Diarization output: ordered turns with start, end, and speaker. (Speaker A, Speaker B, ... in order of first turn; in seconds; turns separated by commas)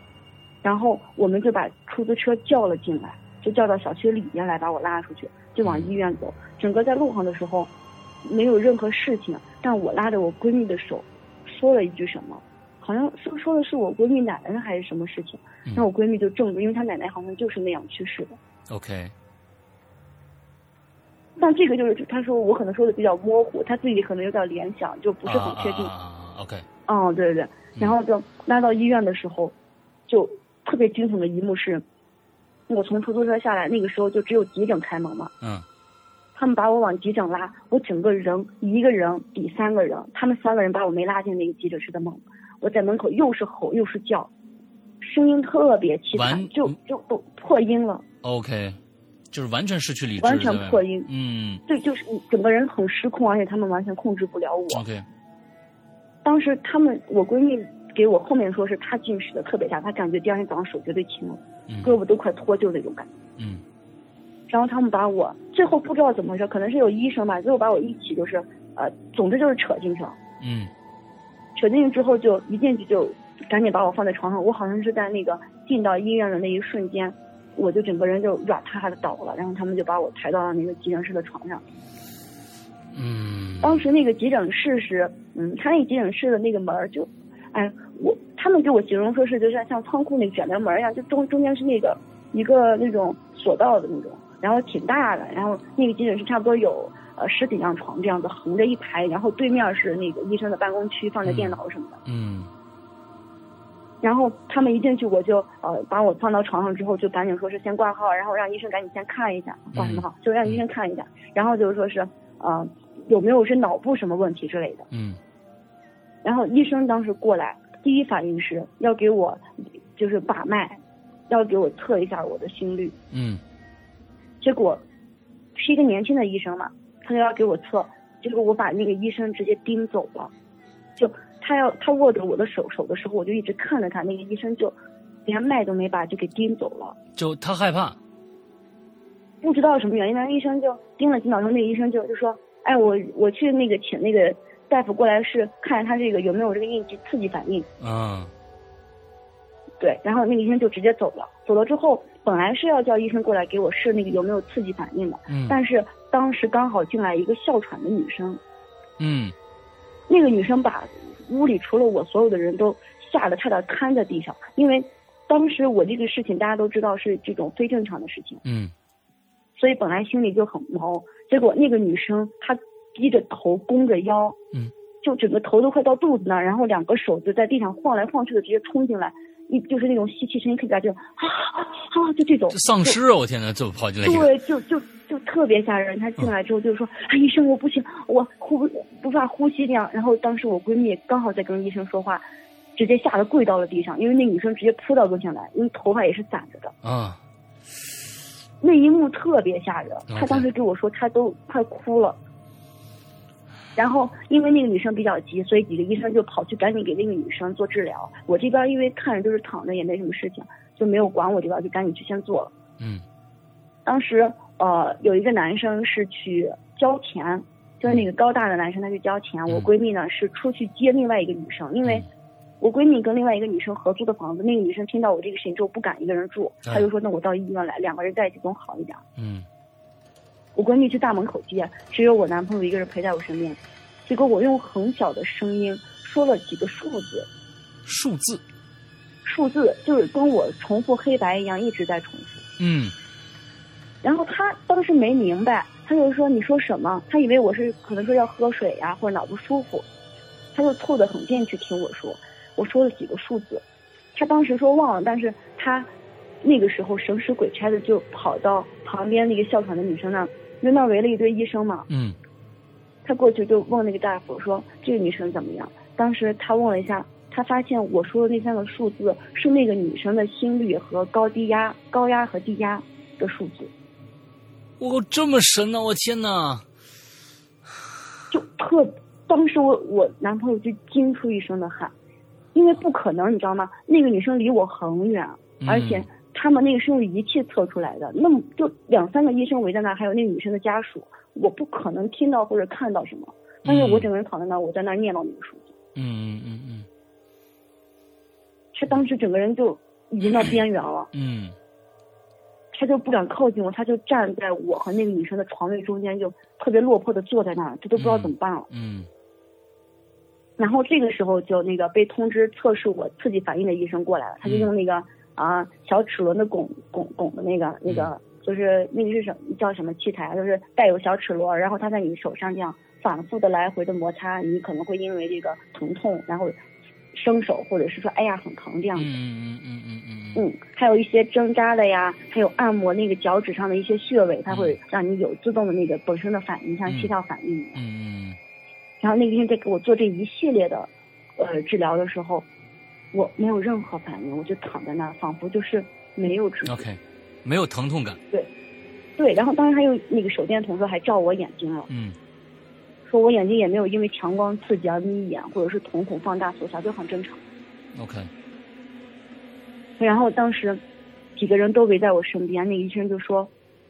Speaker A: 0.6-7.7, Speaker B: 5.7-5.9, Speaker A: 8.2-18.4, Speaker B: 18.7-19.1, Speaker A: 21.4-25.9, Speaker B: 25.3-26.7, Speaker A: 26.9-29.6, Speaker A: 30.1-31.8, Speaker A: 32.7-35.3, Speaker B: 35.4-35.7, Speaker A: 36.4-44.3, Speaker A: 45.0-48.0, Speaker B: 46.1-46.8, Speaker B: 48.2-48.8, Speaker B: 49.3-51.6, Speaker A: 50.2-51.1, Speaker A: 51.7-54.8, Speaker B: 54.7-55.1, Speaker A: 56.2-63.1, Speaker B: 61.7-62.0, Speaker B: 63.4-63.6, Speaker A: 64.5-70.2, Speaker B: 70.4-70.7, Speaker A: 71.6-81.6, Speaker B: 82.9-83.9, Speaker A: 83.6-102.0, Speaker B: 101.2-102.5, Speaker A: 104.0-114.9, Speaker B: 109.8-110.6, Speaker B: 114.9-115.2, Speaker A: 116.2-123.0, Speaker B: 123.1-123.4, Speaker A: 124.4-124.8, Speaker A: 125.5-130.3, Speaker A: 131.0-134.8, Speaker A: 135.3-137.0, Speaker B: 137.2-138.0, Speaker A: 139.4-147.7, Speaker B: 147.8-148.3, Speaker A: 149.8-158.4, Speaker B: 155.3-155.6, Speaker B: 159.0-159.3, Speaker A: 160.1-168.4, Speaker B: 168.4-168.7, Speaker A: 169.6-174.4, Speaker A: 175.0-183.0, Speaker B: 182.5-184.3, Speaker A: 184.0-192.2, Speaker A: 192.8-196.7, Speaker B: 196.8-197.2, Speaker A: 198.6-202.2, Speaker B: 200.1-200.5, Speaker A: 203.8-212.5, Speaker B: 212.8-213.1, Speaker A: 213.9-222.1, Speaker A: 222.6-229.0, Speaker B: 229.2-229.5, Speaker A: 230.6-237.3, Speaker B: 237.8-238.4, Speaker A: 239.2-242.4, Speaker B: 242.6-242.9, Speaker A: 244.0-249.9, Speaker A: 250.5-255.9, Speaker A: 256.4-261.9, Speaker B: 261.9-262.2, Speaker A: 263.1-273.7, Speaker B: 274.8-276.7, Speaker A: 278.3-281.9, Speaker A: 282.5-295.7, Speaker B: 285.6-286.1, Speaker B: 293.6-294.1, Speaker B: 296.0-296.9, Speaker A: 298.7-301.1, Speaker B: 301.1-301.6, Speaker A: 302.7-308.7, Speaker B: 308.0-309.1, Speaker A: 310.6-326.6, Speaker B: 314.4-314.7, Speaker A: 327.1-329.1, Speaker B: 329.0-330.4, Speaker A: 330.4-337.8, Speaker B: 334.5-334.8, Speaker B: 337.8-338.4, Speaker A: 339.0-342.5, Speaker A: 343.1-346.8, Speaker B: 346.7-348.2, Speaker A: 349.2-351.9, Speaker B: 351.9-352.2, Speaker A: 353.1-357.4, Speaker B: 357.9-358.3, Speaker A: 360.0-360.8, Speaker A: 361.4-363.5